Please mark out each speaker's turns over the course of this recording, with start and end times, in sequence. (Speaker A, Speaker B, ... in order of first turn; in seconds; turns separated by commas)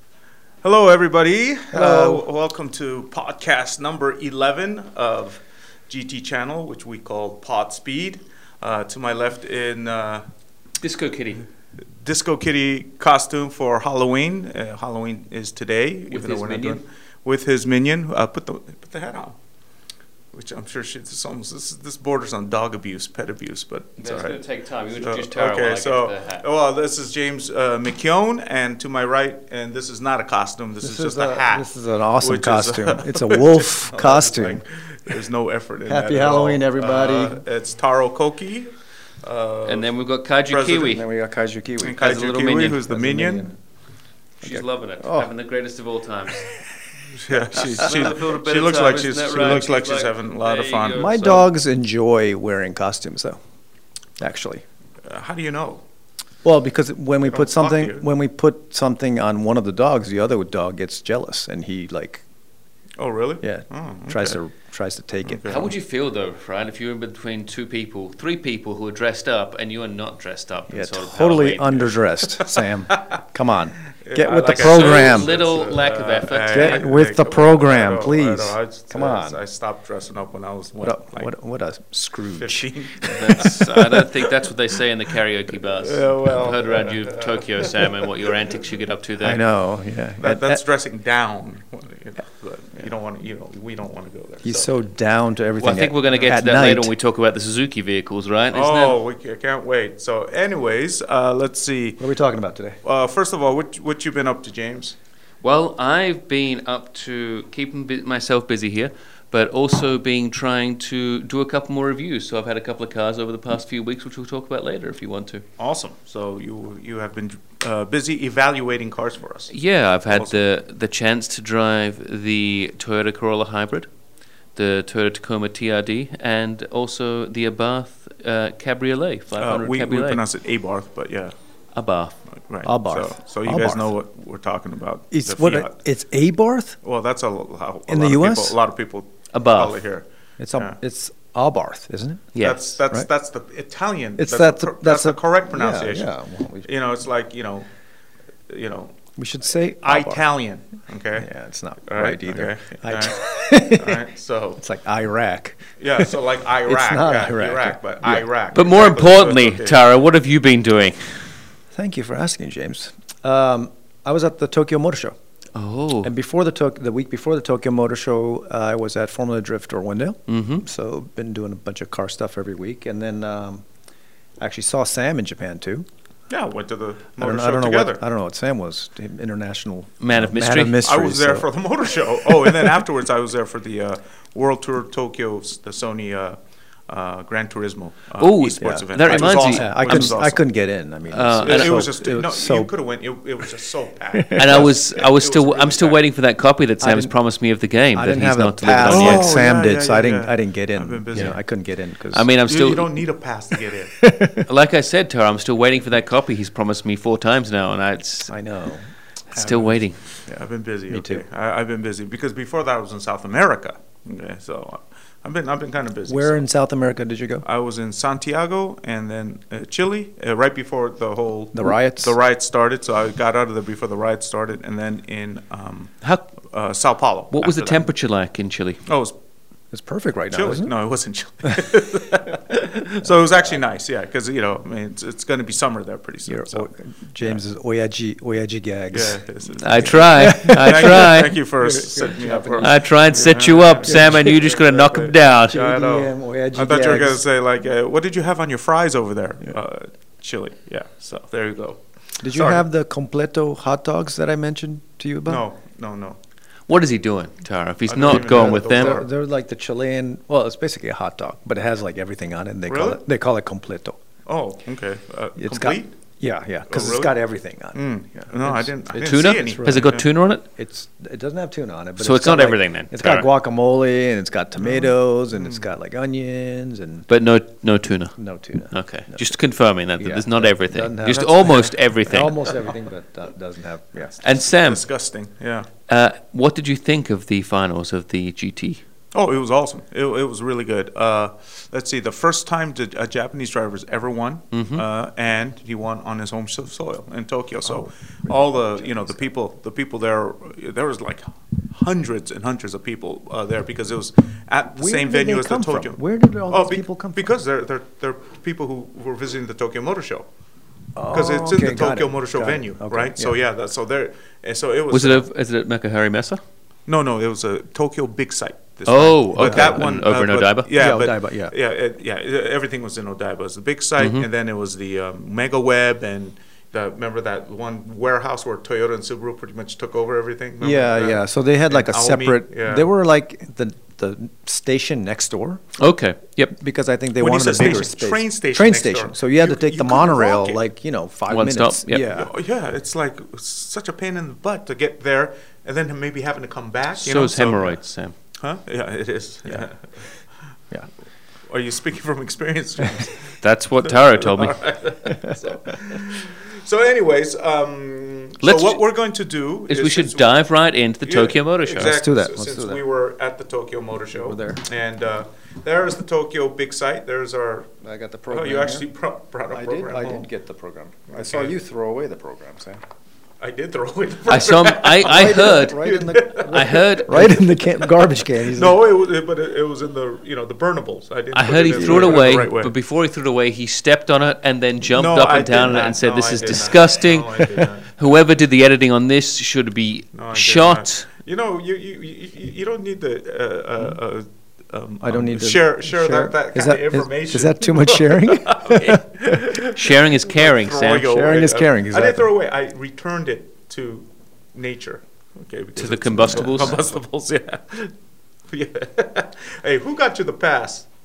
Speaker A: 0.6-10.2, Speaker B: 1.7-2.2, Speaker C: 10.8-11.4, Speaker A: 12.0-19.4, Speaker C: 16.1-16.8, Speaker A: 20.3-24.4, Speaker C: 24.0-26.4, Speaker A: 25.0-31.7, Speaker B: 30.8-34.6, Speaker A: 32.2-38.7, Speaker B: 35.9-37.4, Speaker A: 39.2-39.9, Speaker C: 39.6-41.0, Speaker A: 40.5-41.0, Speaker B: 40.9-43.5, Speaker A: 41.8-43.5, Speaker C: 42.0-42.8, Speaker B: 44.4-45.3, Speaker C: 44.4-46.5, Speaker A: 47.2-51.1, Speaker C: 47.5-51.4, Speaker B: 47.8-48.1, Speaker B: 51.0-53.4, Speaker B: 54.2-54.6, Speaker A: 55.0-55.8, Speaker B: 56.4-62.2, Speaker A: 57.2-58.0, Speaker A: 63.0-64.4, Speaker B: 63.4-65.7, Speaker A: 65.2-65.7, Speaker C: 65.5-71.9, Speaker B: 70.7-75.3, Speaker A: 74.0-81.3, Speaker C: 74.5-76.8, Speaker B: 76.5-79.4, Speaker B: 80.8-83.5, Speaker A: 82.2-84.5, Speaker C: 83.0-89.4, Speaker A: 85.7-88.0, Speaker B: 89.2-90.6, Speaker A: 90.2-94.7, Speaker B: 94.4-96.9, Speaker C: 95.6-99.0, Speaker A: 96.1-96.3, Speaker A: 98.5-102.0, Speaker B: 102.0-102.8, Speaker A: 102.8-104.9, Speaker C: 105.4-115.4, Speaker A: 115.6-119.5, Speaker C: 119.5-123.9, Speaker A: 120.1-120.4, Speaker C: 124.5-130.2, Speaker A: 129.4-131.3, Speaker C: 131.7-132.1, Speaker A: 132.5-135.7, Speaker B: 132.6-133.9, Speaker B: 135.1-136.8, Speaker A: 136.8-140.8, Speaker B: 137.9-138.6, Speaker C: 139.3-139.8, Speaker B: 140.4-142.3, Speaker C: 142.3-142.6, Speaker A: 142.4-146.1, Speaker B: 144.2-146.7, Speaker A: 146.6-147.7, Speaker A: 148.5-148.9, Speaker B: 149.2-150.2, Speaker A: 149.8-151.3, Speaker B: 151.2-154.1, Speaker A: 151.8-154.6, Speaker B: 154.6-158.3, Speaker A: 155.8-159.8, Speaker C: 158.5-161.0, Speaker B: 161.7-165.1, Speaker C: 165.5-166.1, Speaker B: 166.0-173.6, Speaker C: 170.3-170.6, Speaker B: 174.4-175.9, Speaker A: 176.3-178.0, Speaker B: 177.2-181.5, Speaker C: 180.0-180.8, Speaker A: 180.8-190.4, Speaker B: 182.4-182.7, Speaker C: 188.2-190.2, Speaker B: 188.6-192.7, Speaker C: 191.1-191.8, Speaker A: 191.4-196.0, Speaker B: 194.1-194.7, Speaker C: 194.3-199.3, Speaker B: 196.8-197.1, Speaker B: 197.9-202.3, Speaker A: 198.8-201.4, Speaker C: 202.1-202.9, Speaker A: 202.5-203.9, Speaker B: 204.0-204.4, Speaker C: 204.4-208.3, Speaker B: 208.3-211.2, Speaker C: 209.3-210.0, Speaker A: 210.3-216.4, Speaker B: 216.1-217.4, Speaker A: 217.4-227.9, Speaker B: 221.5-222.1, Speaker C: 227.3-228.8, Speaker A: 228.9-229.1, Speaker B: 229.7-230.7, Speaker A: 230.3-236.7, Speaker B: 236.3-244.4, Speaker A: 238.9-252.6, Speaker C: 239.6-241.3, Speaker C: 242.6-245.6, Speaker B: 245.5-247.2, Speaker B: 252.2-255.4, Speaker A: 255.2-256.2, Speaker C: 256.7-259.0, Speaker A: 257.9-259.1, Speaker B: 258.0-264.0, Speaker A: 262.7-263.0, Speaker A: 264.2-266.0, Speaker B: 265.4-277.1, Speaker A: 266.7-267.2, Speaker A: 267.7-270.0, Speaker C: 268.9-270.4, Speaker C: 272.0-273.3, Speaker A: 274.6-275.6, Speaker C: 277.1-278.1, Speaker B: 278.2-279.3, Speaker C: 278.7-282.5, Speaker B: 280.0-284.2, Speaker C: 284.2-284.8, Speaker A: 284.6-285.7, Speaker C: 285.9-288.8, Speaker A: 289.1-310.3, Speaker C: 294.5-294.8, Speaker B: 297.6-299.3, Speaker B: 304.8-307.3, Speaker B: 310.9-313.4, Speaker A: 311.1-315.3, Speaker C: 314.9-316.4, Speaker A: 316.9-332.9, Speaker C: 318.9-320.7, Speaker B: 319.4-320.0, Speaker B: 320.7-321.5, Speaker C: 324.0-324.2, Speaker B: 330.6-335.8, Speaker C: 335.8-336.5, Speaker B: 336.5-342.3, Speaker A: 337.2-340.6, Speaker C: 341.3-342.0, Speaker A: 342.1-347.8, Speaker C: 347.0-348.1, Speaker A: 348.4-350.0, Speaker A: 351.5-360.3, Speaker C: 353.4-354.6, Speaker B: 355.1-355.4, Speaker C: 358.4-358.8, Speaker C: 359.7-361.9, Speaker A: 361.0-367.7, Speaker B: 361.8-362.8, Speaker B: 364.1-364.6, Speaker B: 367.8-368.9, Speaker A: 368.3-370.3, Speaker B: 369.5-372.8, Speaker A: 371.1-371.6, Speaker A: 373.4-382.7, Speaker C: 374.3-375.9, Speaker B: 375.0-378.8, Speaker C: 376.5-377.4, Speaker C: 381.3-391.1, Speaker B: 381.7-382.4, Speaker A: 384.9-387.9, Speaker A: 390.1-407.9, Speaker B: 395.0-399.3, Speaker C: 399.7-401.1, Speaker B: 401.0-402.3, Speaker C: 405.8-406.9, Speaker B: 406.2-406.7, Speaker A: 408.5-410.9